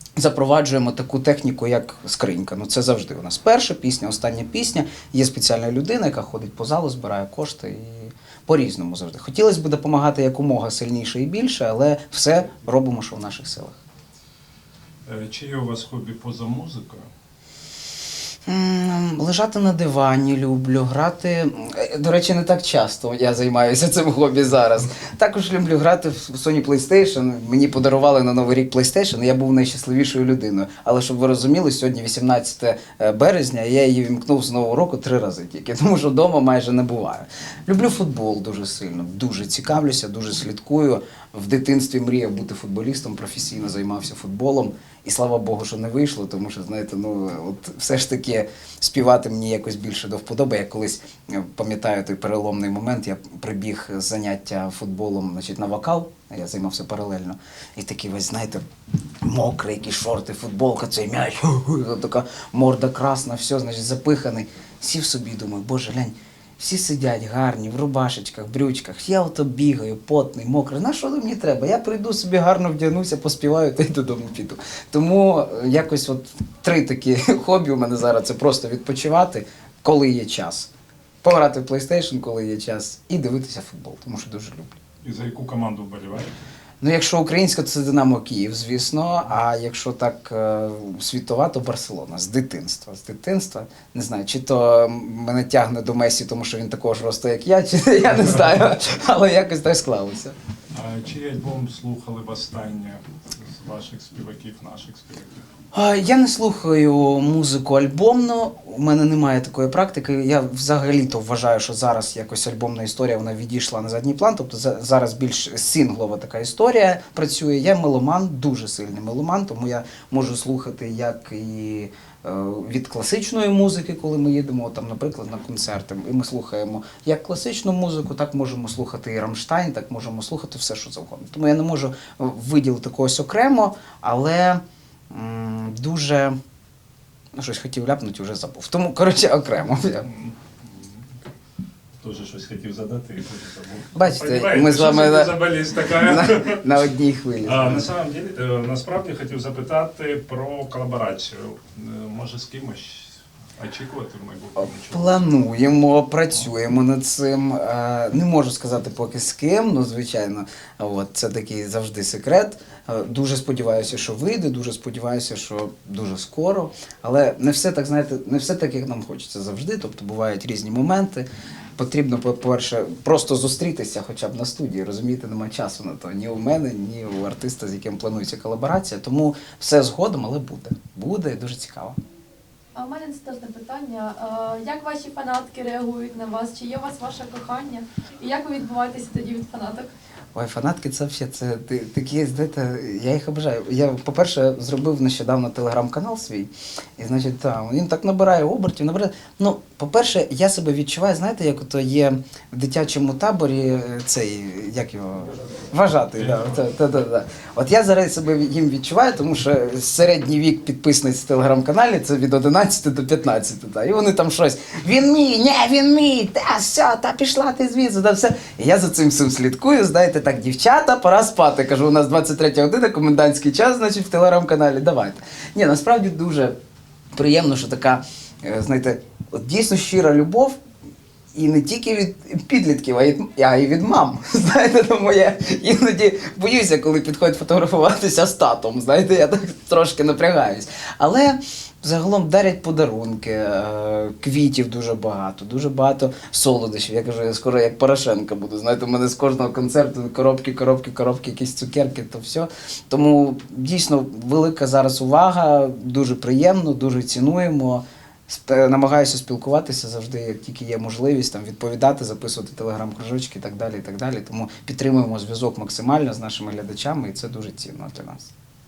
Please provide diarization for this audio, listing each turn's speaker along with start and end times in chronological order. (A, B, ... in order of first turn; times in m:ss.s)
0:00.2-0:13.8 A
0:15.0-0:17.1 B
0:18.5-0:58.6 A
0:59.2-1:20.7 A
1:21.2-1:24.8 A
1:25.0-1:26.3 B
1:26.8-1:40.4 A
1:38.1-1:38.6 B
1:40.7-1:45.4 B
1:45.7-2:16.4 A
2:17.3-2:20.1 A
2:20.0-2:21.0 B
2:22.0-2:26.6 B
2:24.0-2:25.4 A
2:25.9-2:27.9 A
2:27.4-2:35.2 B
2:34.9-3:02.0 A
3:02.7-3:09.9 C
3:10.3-3:46.6 A
3:26.2-3:26.6 B
3:47.1-3:50.6 A
3:51.3-4:28.3 A